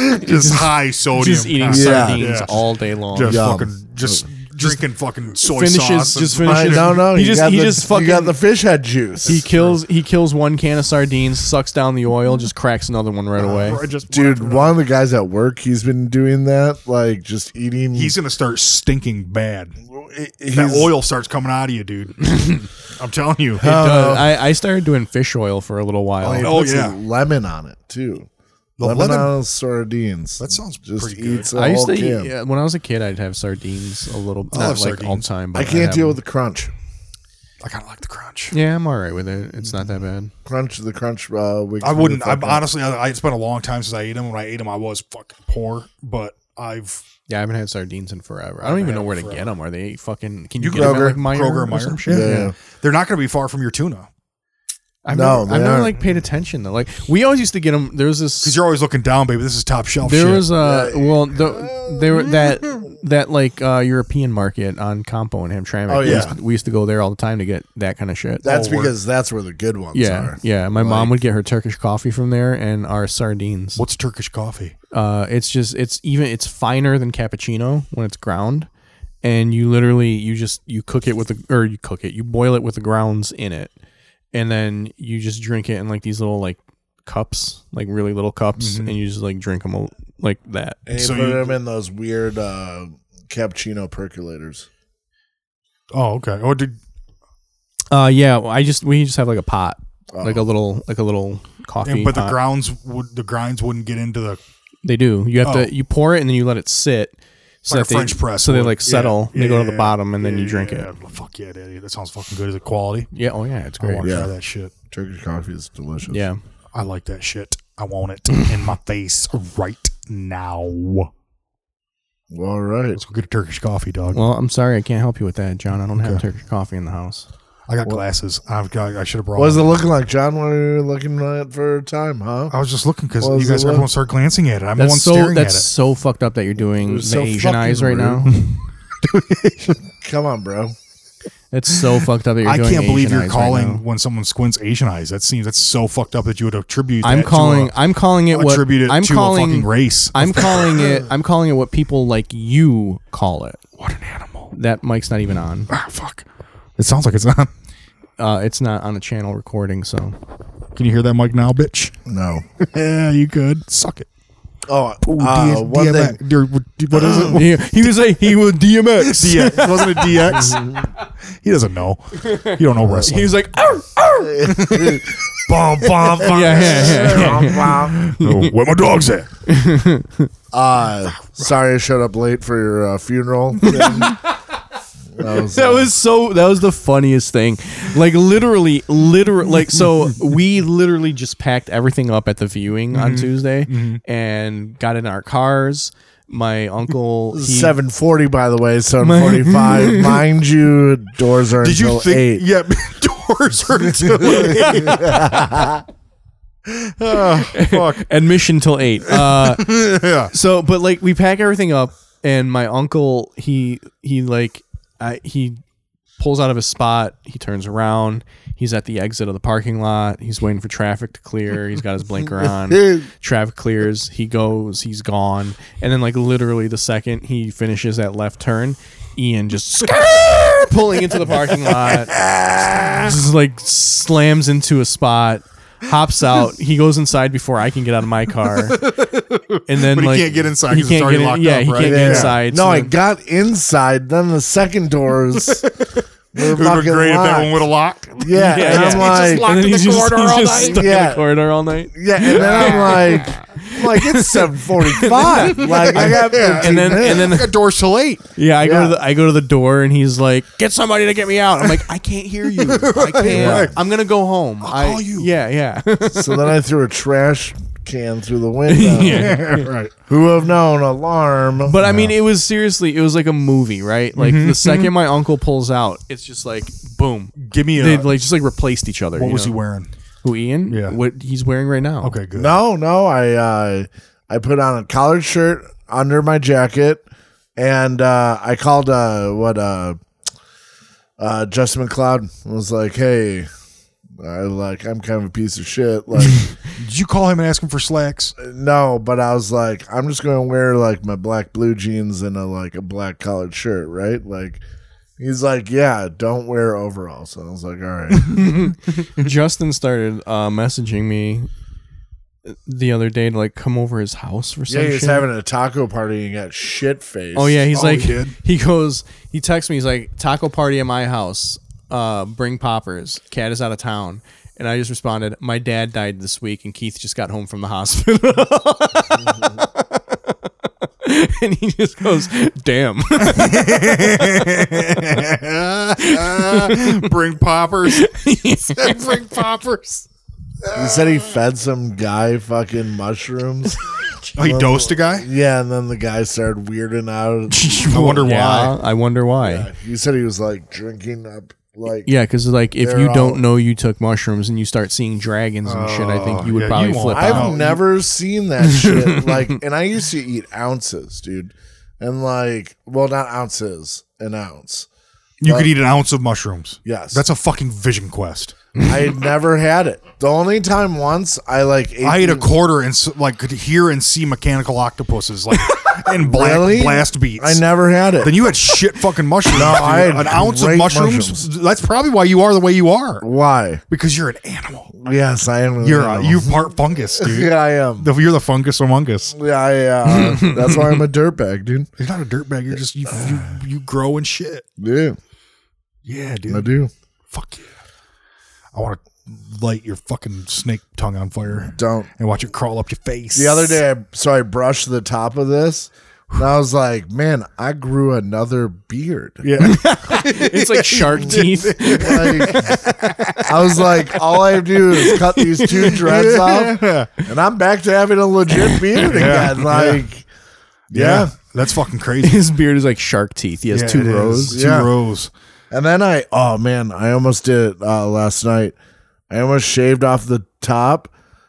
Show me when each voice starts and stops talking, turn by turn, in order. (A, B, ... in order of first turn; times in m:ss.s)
0:00.1-0:02.6 A
0:00.2-0:03.4 B
0:01.6-0:02.4 C
0:03.1-0:07.0 A
0:03.2-0:04.2 C
0:05.4-0:08.4 B
0:06.4-0:09.4 C
0:09.2-0:09.8 A
0:09.2-0:13.8 B
0:13.4-0:14.8 A
0:14.1-0:18.2 C
0:17.9-0:19.8 A
0:19.9-0:20.9 C
0:20.5-0:23.7 A
0:23.6-0:24.4 C
0:23.6-0:26.5 B
0:26.2-0:28.3 C
0:26.2-0:27.0 A
0:28.8-0:29.3 A
0:28.8-0:32.3 C
0:30.4-0:31.5 A
0:31.5-0:36.2 B
0:34.5-0:35.3 A
0:35.5-0:36.7 C
0:37.6-0:38.6 A
0:38.5-0:40.3 B
0:40.4-0:42.6 C
0:41.8-0:47.0 A
0:47.3-0:52.5 B
0:48.6-0:49.5 A
0:50.6-0:54.1 A
0:50.7-0:51.2 C
0:52.1-0:52.5 C
0:55.0-0:58.6 B
0:55.1-0:56.0 C
0:58.4-1:00.5 A
1:00.0-1:08.5 B
1:00.6-1:02.4 C
1:05.9-1:06.4 C
1:06.0-1:06.3 A
1:08.4-1:11.2 C
1:08.4-1:08.9 A
1:09.9-1:13.8 B
1:13.8-1:14.7 A
1:14.9-1:18.7 B
1:19.2-1:23.7 B
1:24.3-1:30.8 B
1:28.6-1:28.9 A
1:30.9-1:34.7 C
1:30.9-1:31.5 A
1:35.9-1:36.8 A
1:37.9-1:42.4 B
1:40.1-1:40.5 C
1:41.8-1:44.4 A
1:44.8-1:50.9 B
1:45.4-1:45.7 A
1:47.7-1:53.1 A
1:53.1-1:54.2 B
1:53.8-1:54.7 A
1:54.0-1:54.3 C
1:54.9-1:56.2 C
1:56.1-1:56.4 B
1:56.7-2:01.1 A
2:02.3-2:03.0 C
2:02.9-2:04.2 A
2:04.1-2:07.3 B
2:07.7-2:09.7 A
2:09.4-2:12.5 C
2:12.5-2:15.6 A
2:13.2-2:13.9 C
2:14.8-2:18.3 B
2:16.8-2:18.3 C
2:18.2-2:19.8 A
2:20.0-2:20.7 C
2:21.5-2:23.8 B
2:22.4-2:27.7 A
2:27.0-2:33.6 B
2:28.3-2:30.9 A
2:33.8-2:34.5 A
2:34.5-2:35.7 B
2:35.7-2:36.2 A
2:36.8-2:37.5 A
2:38.2-2:40.1 B
2:40.8-2:41.9 A
2:42.0-2:42.4 C
2:42.6-2:44.1 A
2:44.7-2:46.2 C
2:45.0-2:47.6 A
2:46.9-2:47.3 C
2:47.3-2:50.4 B
2:49.0-2:50.8 A
2:51.4-2:53.4 A
2:52.2-2:55.0 B
2:52.8-2:53.1 C
2:54.3-2:58.0 C
2:54.5-2:54.8 A
2:55.8-2:59.3 A
2:56.2-2:58.5 B
2:59.4-3:00.3 B
3:00.5-3:04.1 C
3:03.6-3:04.3 B
3:05.1-3:05.9 C
3:05.2-3:17.8 B
3:12.9-3:14.0 A
3:17.3-3:22.4 C
3:19.0-3:20.2 B
3:21.6-3:25.6 A
3:24.0-3:25.8 C
3:24.3-3:25.0 B
3:26.7-3:28.0 A
3:27.2-3:35.6 B
3:29.2-3:30.3 A
3:36.2-3:52.1 B
3:42.6-3:43.1 C
3:52.4-3:53.0 A
3:52.9-3:58.8 B
3:58.6-4:02.4 A
3:59.7-4:02.9 B
4:01.8-4:05.6 C
4:06.3-4:07.6 C
4:06.4-4:10.8 A
4:08.2-4:09.5 C
4:08.4-4:17.5 B
4:10.7-4:11.2 C
4:11.9-4:17.4 C
4:12.3-4:13.0 A
4:15.6-4:18.2 A
4:18.4-4:26.6 B
4:18.6-4:19.0 C
4:22.6-4:23.8 A
4:23.2-4:23.7 C
4:24.6-4:25.3 A
4:26.1-4:29.4 C
4:28.7-4:29.7 B
4:29.1-4:29.9 A
4:30.1-4:31.8 C
4:31.6-4:39.5 B
4:31.8-4:32.1 A
4:34.2-4:34.9 A
4:37.4-4:38.1 A
4:39.2-4:39.9 A
4:40.2-4:42.2 B
4:40.7-4:41.0 A
4:42.0-4:42.5 A
4:42.3-4:47.0 C
4:47.6-4:50.0 C
4:51.2-4:53.5 C
4:54.2-4:56.4 C
4:56.8-4:58.3 A
4:58.4-5:04.6 C
5:05.2-5:08.4 C
5:08.3-5:11.5 B
5:12.4-5:15.3 B
5:14.7-5:17.6 C
5:17.3-5:30.5 B
5:17.7-5:18.3 A
5:31.0-5:34.6 B
5:33.2-5:38.0 A
5:36.0-5:37.1 B
5:37.9-5:39.4 B
5:38.7-5:40.1 A
5:40.7-5:43.8 C
5:40.8-5:41.3 A
5:44.4-5:45.3 A
5:44.4-5:48.1 C
5:47.5-5:49.7 B
5:47.9-5:48.7 A
5:49.4-5:52.1 C
5:52.0-5:57.6 B
5:52.8-5:53.4 C
5:55.6-5:57.8 A
5:57.1-6:04.9 C
5:58.6-5:59.5 B
6:05.4-6:08.6 A
6:05.4-6:05.7 C
6:06.8-6:07.2 C
6:08.8-6:12.5 C
6:12.0-6:17.6 A
6:16.1-6:18.4 C
6:18.2-6:23.2 A
6:19.5-6:21.4 C
6:23.2-6:23.8 C
6:23.9-6:25.0 A
6:25.0-6:28.1 C
6:25.8-6:29.3 A
6:29.3-6:31.9 C
6:30.2-6:30.8 B
6:32.0-6:34.6 A
6:33.1-6:33.4 C
6:34.8-6:35.2 C
6:36.0-6:36.7 A
6:36.5-6:36.9 C
6:37.3-6:37.7 A
6:38.7-6:43.8 A
6:41.6-6:42.1 C
6:43.3-6:49.6 C
6:49.4-6:53.4 A
6:49.6-6:52.8 B
6:51.8-6:52.7 C
6:53.4-7:00.2 C
6:55.0-6:56.0 B
6:56.1-6:57.1 A
6:59.0-7:00.0 A
7:00.9-7:01.3 C
7:00.9-7:02.4 A
7:02.2-7:04.6 B
7:03.7-7:05.3 A
7:04.5-7:04.9 C
7:05.7-7:08.8 C
7:09.3-7:11.1 C